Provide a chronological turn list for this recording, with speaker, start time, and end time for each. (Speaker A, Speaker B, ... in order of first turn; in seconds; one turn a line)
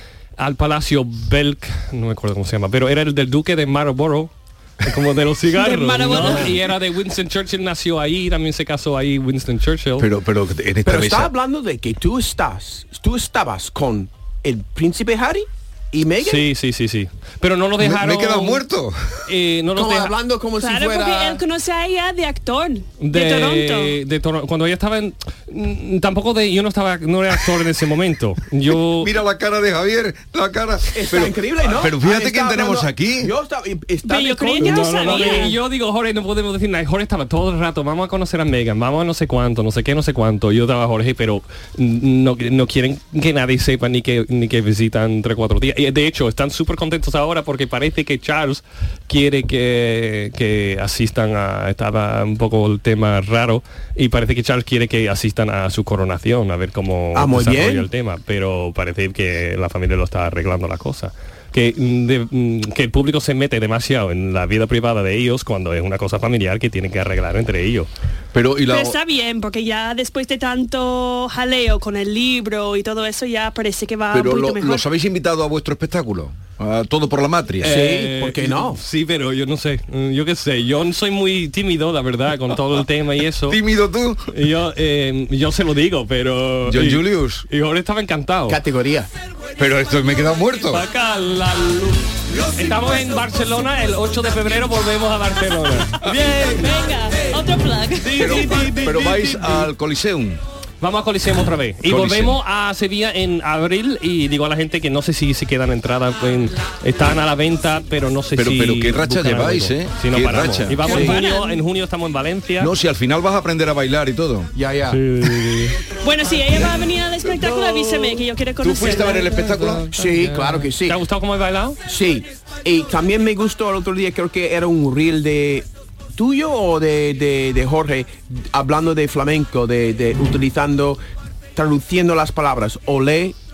Speaker A: 0.4-10.1
Speaker B: 5.5-6.5
Speaker C: 6.1-6.5
Speaker D: 10.0-11.3
Speaker C: 10.8-16.4
Speaker A: 16.2-18.6
Speaker D: 17.8-19.2
Speaker A: 19.3-20.1
Speaker C: 19.7-21.4
Speaker B: 20.6-23.9
Speaker A: 23.0-29.1
Speaker D: 29.0-33.3
Speaker C: 30.9-35.5
Speaker B: 34.0-35.5
Speaker A: 34.6-67.9
Speaker C: 57.1-57.9
Speaker D: 68.3-69.0
Speaker B: 68.6-74.8
Speaker D: 74.1-77.8
Speaker A: 77.6-83.6
Speaker C: 77.6-78.8
Speaker D: 83.5-84.3
Speaker A: 84.3-88.6
Speaker D: 86.7-87.4
Speaker C: 88.5-89.1
Speaker D: 89.6-90.8
Speaker A: 90.6-96.7
Speaker B: 96.5-98.5
Speaker A: 98.0-99.7
Speaker D: 98.2-100.4
Speaker A: 100.8-112.7
Speaker D: 101.9-102.4
Speaker D: 108.3-111.0
Speaker B: 110.8-111.6
Speaker C: 110.9-111.2
Speaker D: 112.6-114.5
Speaker C: 114.5-115.0
Speaker A: 114.9-115.8
Speaker B: 116.0-119.3
Speaker A: 117.5-118.2
Speaker D: 118.6-119.9
Speaker A: 118.8-121.8
Speaker C: 119.9-121.0
Speaker C: 121.8-131.0
Speaker C: 131.5-133.3